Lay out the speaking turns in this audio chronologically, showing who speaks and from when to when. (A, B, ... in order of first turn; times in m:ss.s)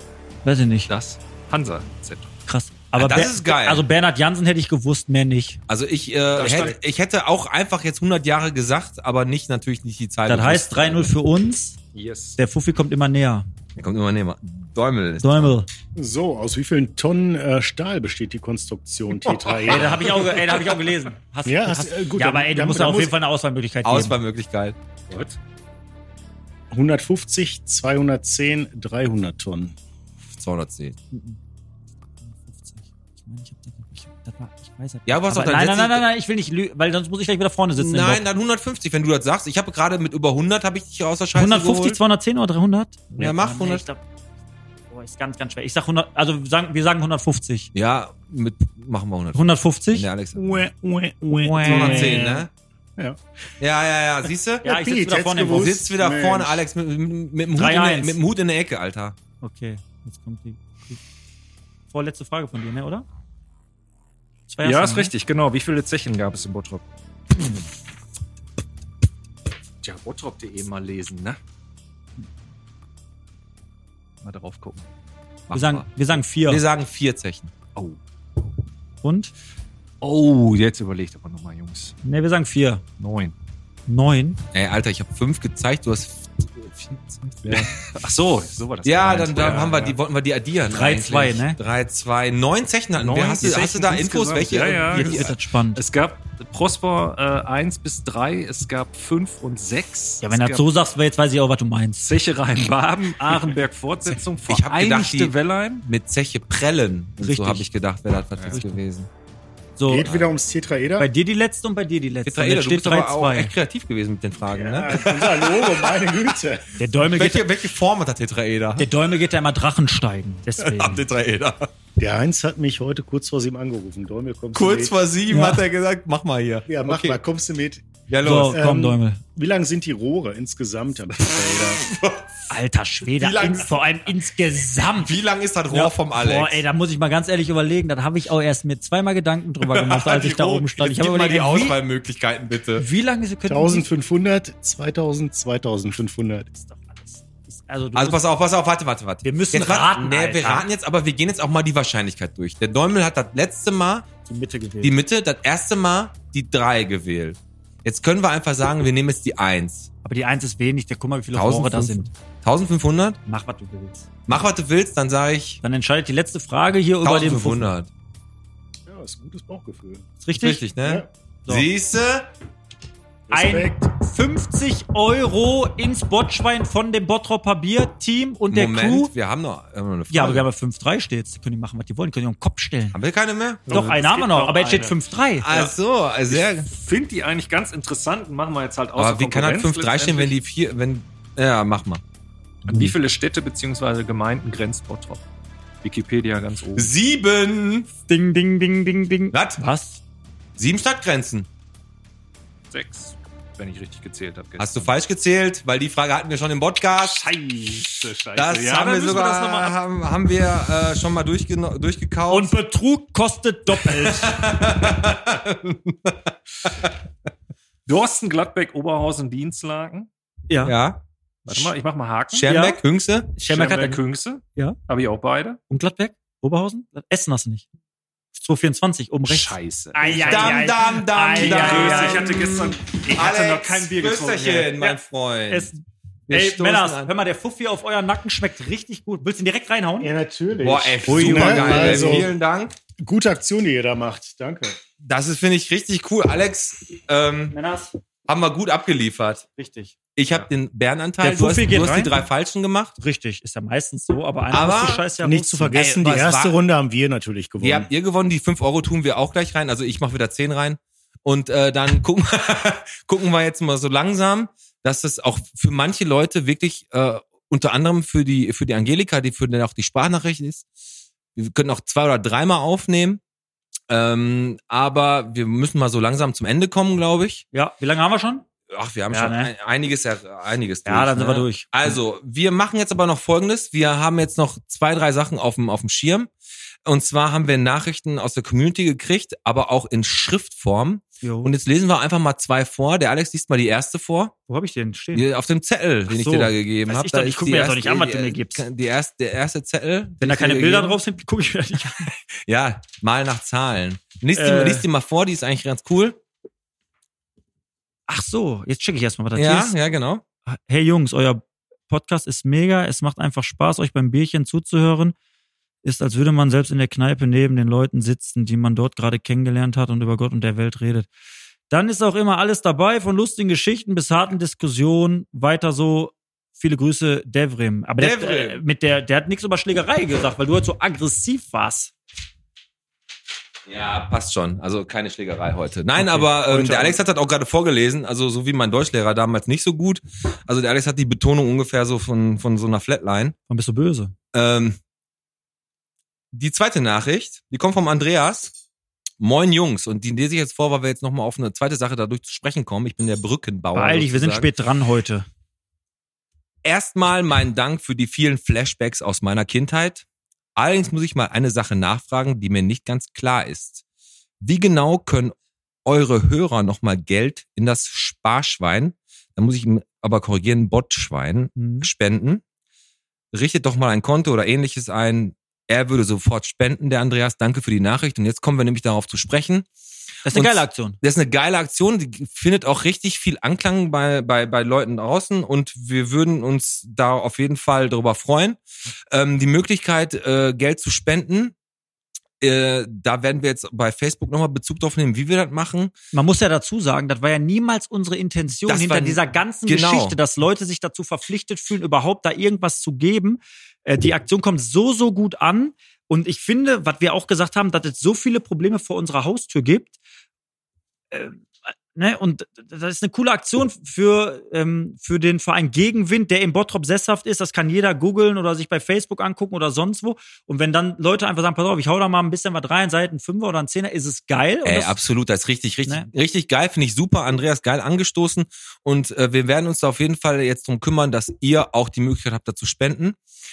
0:00.4-0:00.9 A
0:00.9-0:02.3 B
0:02.5-0:05.6 A
0:02.9-0:03.8 C
0:05.7-0:11.1 C
0:06.3-0:06.8 B
0:10.3-0:11.8 A
0:11.9-0:12.4 B
0:12.4-0:13.4 A
0:13.8-0:15.5 C
0:15.2-0:15.7 A
0:16.0-0:20.2 D
0:19.7-0:24.2 A
0:21.4-0:23.1 D
0:23.8-0:24.8 C
0:25.1-0:25.4 B
0:26.7-0:29.8 D
0:30.3-0:31.0 C
0:31.1-0:31.4 A
0:32.2-0:38.2 A
0:35.1-0:36.0 C
0:37.8-0:42.0 C
0:41.3-0:44.0 A
0:43.1-0:43.8 C
0:44.9-0:47.7 A
0:47.7-0:50.6 C
0:49.3-0:50.1 A
0:50.3-0:53.2 D
0:51.4-0:52.4 A
0:51.6-0:52.5 C
0:53.6-0:54.6 C
0:54.6-0:55.7 A
0:54.6-0:56.6 D
0:55.5-0:59.2 C
0:57.5-0:58.2 A
0:59.4-1:01.0 A
1:01.9-1:03.0 A
1:04.5-1:05.1 A
1:04.6-1:06.8 B
1:09.8-1:11.4 B
1:14.2-1:14.9 B
1:15.5-1:17.5 C
1:15.5-1:16.6 A
1:19.0-1:19.3 A
1:20.0-1:22.0 B
1:22.0-1:22.8 A
1:23.0-1:23.3 B
1:23.9-1:24.4 A
1:24.5-1:27.8 C
1:27.4-1:30.0 B
1:28.8-1:35.3 C
1:30.7-1:31.6 A
1:33.0-1:40.7 B
1:34.6-1:35.8 A
1:40.2-1:42.1 A
1:42.0-1:45.8 B
1:44.5-1:49.1 C
1:47.2-1:47.7 A
1:48.5-1:48.8 A
1:49.8-1:50.1 A
1:49.9-1:51.1 D
1:50.0-1:50.3 C
1:51.0-1:53.5 A
1:52.2-1:56.3 C
1:54.5-1:56.7 D
1:56.8-1:57.4 A
1:57.0-1:58.9 C
1:58.8-2:01.0 A
2:00.6-2:01.7 C
2:02.0-2:04.9 D
2:04.5-2:07.2 C
2:05.3-2:05.6 A
2:06.7-2:11.9 D
2:08.1-2:08.7 C
2:08.2-2:09.2 A
2:11.2-2:12.5 C
2:12.5-2:15.2 A
2:13.1-2:13.8 C
2:14.9-2:16.6 C
2:15.7-2:21.8 A
2:19.6-2:22.8 C
2:22.8-2:23.8 A
2:23.5-2:26.5 D
2:26.5-2:28.2 A
2:27.9-2:34.1 C
2:29.2-2:30.7 A
2:34.2-2:34.9 A
2:34.8-2:39.9 C
2:40.0-2:42.1 A
2:41.3-2:43.2 C
2:43.2-2:44.1 A
2:44.3-2:45.6 C
2:45.6-2:47.6 A
2:47.0-2:47.9 C
2:48.9-2:50.1 D
2:50.2-2:50.6 A
2:50.3-2:52.3 C
2:50.8-2:51.1 D
2:53.3-2:53.9 D
2:53.3-2:59.1 A
2:58.5-3:00.5 C
3:00.1-3:03.0 A
3:02.9-3:03.9 C
3:03.7-3:05.0 B
3:03.7-3:05.5 A
3:05.4-3:06.7 C
3:06.3-3:10.4 B
3:09.0-3:12.0 C
3:12.6-3:15.2 B
3:12.7-3:12.9 A
3:15.8-3:16.9 B
3:16.8-3:17.9 C
3:18.1-3:20.0 A
3:19.3-3:19.6 C
3:20.6-3:21.5 C
3:22.7-3:24.9 B
3:24.6-3:27.3 C
3:27.0-3:29.8 B
3:28.3-3:32.5 C
3:32.3-3:34.6 A
3:33.7-3:36.9 C
3:37.9-3:40.1 B
3:40.5-3:40.7 A
3:40.6-3:41.7 C
3:41.4-3:42.5 B
3:42.3-3:43.3 C
3:42.3-3:42.8 A
3:43.4-3:44.0 A
3:43.4-3:45.6 B
3:45.7-3:47.6 A
3:48.3-3:55.0 A
3:49.2-3:50.8 B
3:50.0-3:55.7 C
3:51.3-3:53.0 B
3:55.5-4:00.1 A
3:56.3-3:57.1 C
4:00.0-4:02.3 D
4:00.5-4:02.7 C
4:01.0-4:02.3 A
4:03.0-4:04.8 D
4:05.0-4:07.6 C
4:07.5-4:07.9 A
4:08.2-4:09.4 C
4:09.6-4:09.9 A
4:10.2-4:13.0 C
4:11.2-4:12.2 A
4:13.0-4:15.8 A
4:14.5-4:15.0 C
4:15.2-4:17.9 D
4:15.7-4:16.6 C
4:17.6-4:30.6 C
4:31.4-4:33.2 C
4:33.9-4:37.4 C
4:37.5-4:38.4 A
4:38.7-4:46.3 C
4:39.1-4:39.5 A
4:40.8-4:42.0 A
4:46.8-4:54.3 C
4:51.2-4:51.5 A
4:54.5-4:55.3 A
4:55.1-5:01.0 C
4:56.1-4:58.6 A
5:00.2-5:02.1 A
5:02.1-5:06.2 C
5:04.3-5:04.8 A
5:08.1-5:09.8 A
5:09.3-5:10.2 C
5:10.5-5:15.1 A
5:15.8-5:21.1 A
5:21.7-5:31.9 A
5:28.0-5:28.6 C
5:33.6-5:43.3 C
5:36.0-5:37.0 A
5:43.5-5:44.1 A
5:44.3-5:44.8 C
5:46.3-5:48.5 C
5:49.2-5:54.5 C
5:53.7-5:55.3 A
5:56.6-6:03.8 C
6:04.4-6:12.4 C
6:11.6-6:11.9 A
6:13.3-6:19.7 C
6:20.2-6:21.0 A
6:20.3-6:28.6 C
6:29.1-6:31.5 C
6:32.4-6:35.9 C
6:36.1-6:49.9 A
6:38.6-6:40.2 C
6:51.1-7:05.0 A
7:04.6-7:13.2 C